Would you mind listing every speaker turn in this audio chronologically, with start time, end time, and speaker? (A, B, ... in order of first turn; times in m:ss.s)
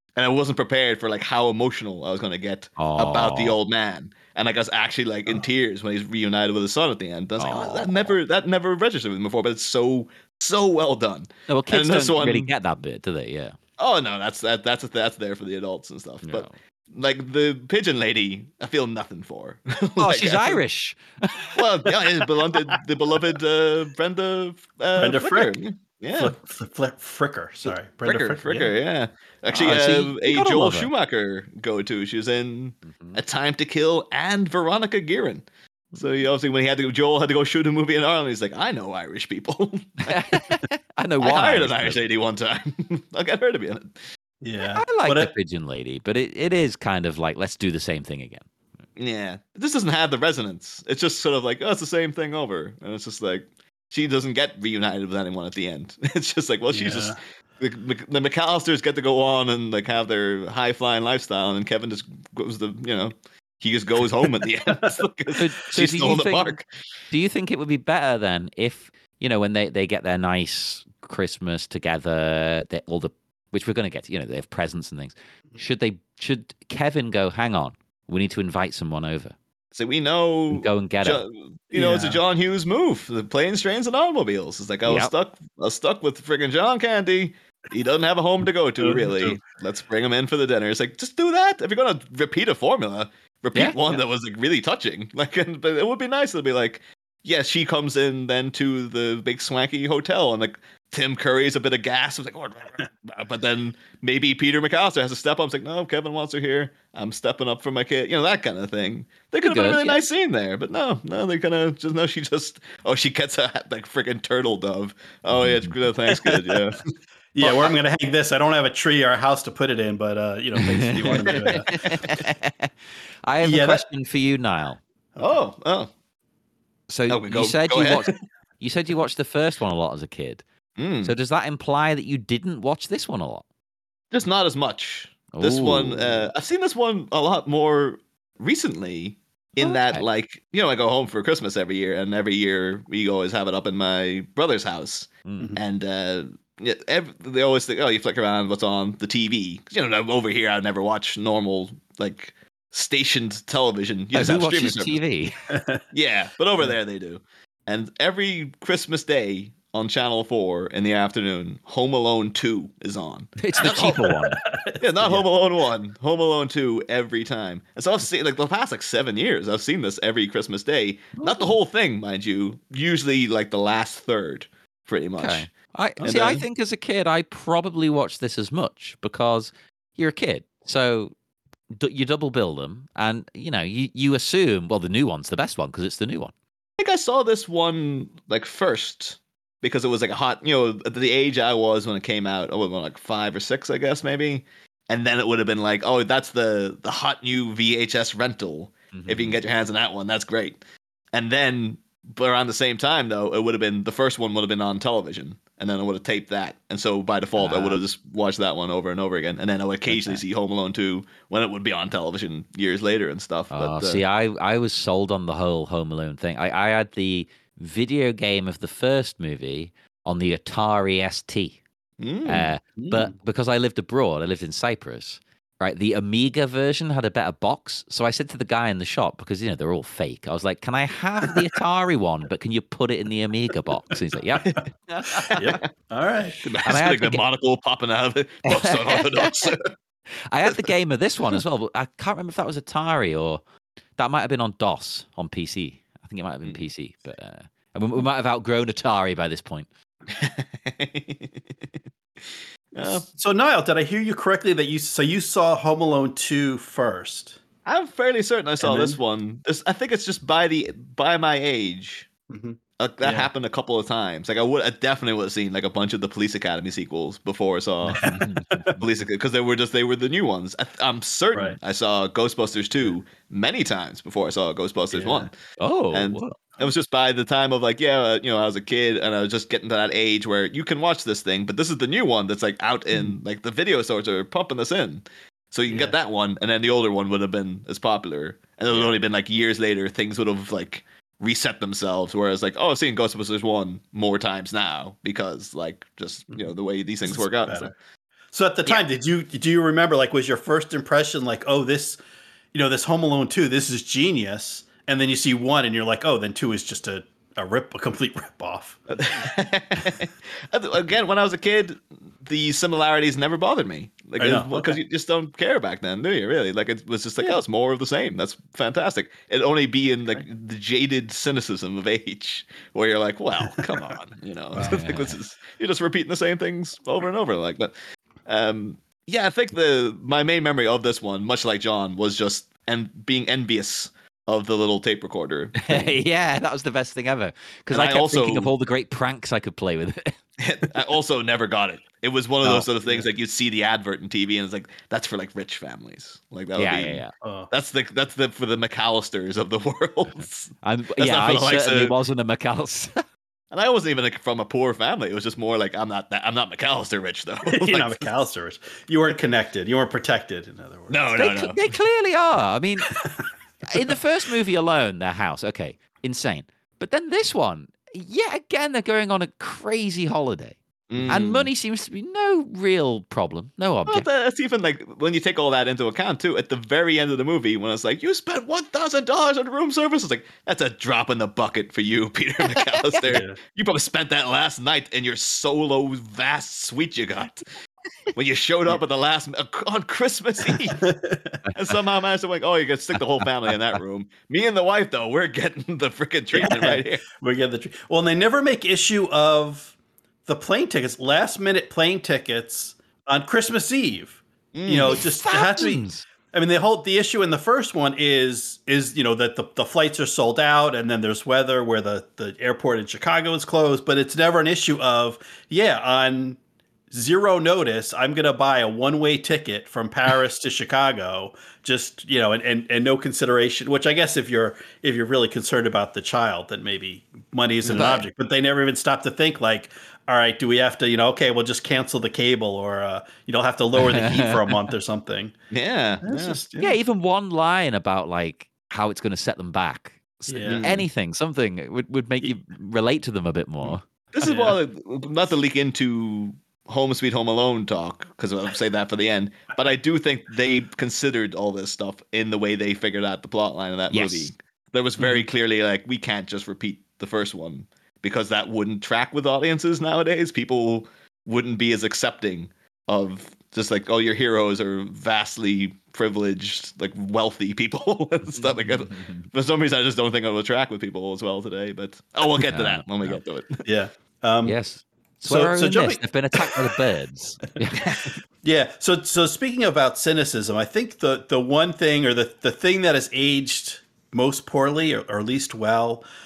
0:00.2-0:12.5 A
0:02.8-0:03.6 B
0:07.4-0:08.1 B
0:11.5-0:13.6 B
0:13.8-0:20.6 A
0:16.2-0:16.5 B
0:20.0-0:21.9 B
0:21.5-0:26.3 A
0:25.0-0:25.6 C
0:26.1-0:28.7 C
0:27.7-0:40.6 A
0:29.5-0:30.9 B
0:32.9-0:33.2 B
0:40.0-0:42.0 B
0:41.2-0:44.0 A
0:44.4-0:45.3 C
0:44.7-0:48.4 B
0:49.0-1:06.6 A
0:56.7-0:57.2 C
1:05.3-1:06.6 B
1:07.1-1:19.3 B
1:19.7-1:56.8 A
1:20.5-1:21.2 B
1:21.7-1:22.2 C
1:24.8-1:25.1 B
1:28.8-1:29.4 C
1:49.4-1:50.0 B
1:55.3-1:55.7 B
1:56.1-1:56.6 C
1:57.3-2:02.0 C
1:57.4-1:57.7 A
2:00.6-2:02.7 B
2:01.2-2:02.2 A
2:03.2-2:04.8 B
2:03.4-2:03.8 C
2:05.2-2:05.9 A
2:06.9-2:10.4 B
2:07.1-2:08.1 A
2:10.8-2:11.1 A
2:11.0-2:13.4 B
2:14.1-2:35.0 A
2:15.3-2:16.3 B
2:19.6-2:20.0 B
2:25.2-2:25.6 B
2:34.1-2:35.3 B
2:35.5-2:35.8 C
2:35.9-2:44.1 A
2:43.4-2:44.4 B
2:43.8-2:45.2 C
2:44.8-2:55.5 A
2:55.2-3:01.1 B
2:56.0-2:56.4 A
3:01.7-3:06.3 B
3:06.8-3:20.6 A
3:18.9-3:19.4 B
3:21.1-3:34.0 A
3:27.4-3:27.8 B
3:29.9-3:30.2 B
3:33.5-3:41.6 B
3:42.0-3:42.5 A
3:42.2-3:55.4 B
3:42.8-3:43.1 C
3:55.2-3:55.6 A
3:55.4-3:56.4 C
3:56.4-3:59.7 A
3:56.6-3:57.2 B
3:58.5-3:59.5 B
4:00.3-4:03.4 B
4:04.0-4:09.7 B
4:10.1-4:11.4 A
4:12.2-4:13.0 A
4:12.8-4:17.4 C
4:17.6-4:22.1 A
4:18.6-4:19.0 C
4:22.3-4:23.3 C
4:22.8-4:28.2 A
4:27.8-4:28.7 B
4:27.9-4:28.8 C
4:28.7-4:35.3 A
4:34.9-4:35.3 C
4:35.6-4:36.4 B
4:35.9-4:57.7 A
4:45.7-4:46.0 C
4:57.0-4:57.7 C
4:58.3-5:02.0 C
5:02.5-5:09.0 C
5:08.9-5:27.7 A
5:14.2-5:14.8 C
5:23.6-5:24.0 B
5:24.6-5:25.1 B
5:28.2-5:36.0 A
5:35.6-5:40.2 B
5:37.7-5:38.5 A
5:40.4-5:51.9 A
5:46.6-5:47.1 B
5:47.2-5:47.5 C
5:50.6-5:53.0 B
5:53.5-5:58.1 A
5:57.4-6:01.0 C
6:00.9-6:01.7 A
6:01.2-6:03.0 B
6:03.7-6:14.0 B
6:10.9-6:11.5 A
6:13.9-6:27.4 A
6:22.6-6:23.0 B
6:23.1-6:23.4 C
6:28.1-6:30.9 A
6:30.4-6:31.4 C
6:31.5-6:37.0 A
6:36.3-6:39.7 C
6:40.2-6:56.4 C
6:44.5-6:45.0 A
6:44.9-6:46.0 B
6:56.9-7:15.3 C
7:07.7-7:08.0 A
7:13.8-7:14.6 B
7:15.5-7:16.7 A
7:16.0-7:16.5 C
7:16.6-7:23.8 B
7:20.3-7:20.7 C
7:20.4-7:20.8 A
7:24.1-7:53.6 A
7:24.2-7:24.6 C
7:33.9-7:34.3 B
7:35.0-7:35.3 C
7:48.4-7:49.3 B
7:52.4-7:53.2 B
7:53.6-7:54.6 C
7:54.4-7:58.0 B
7:55.2-7:56.7 C
7:57.7-7:58.2 A
7:58.4-8:06.0 C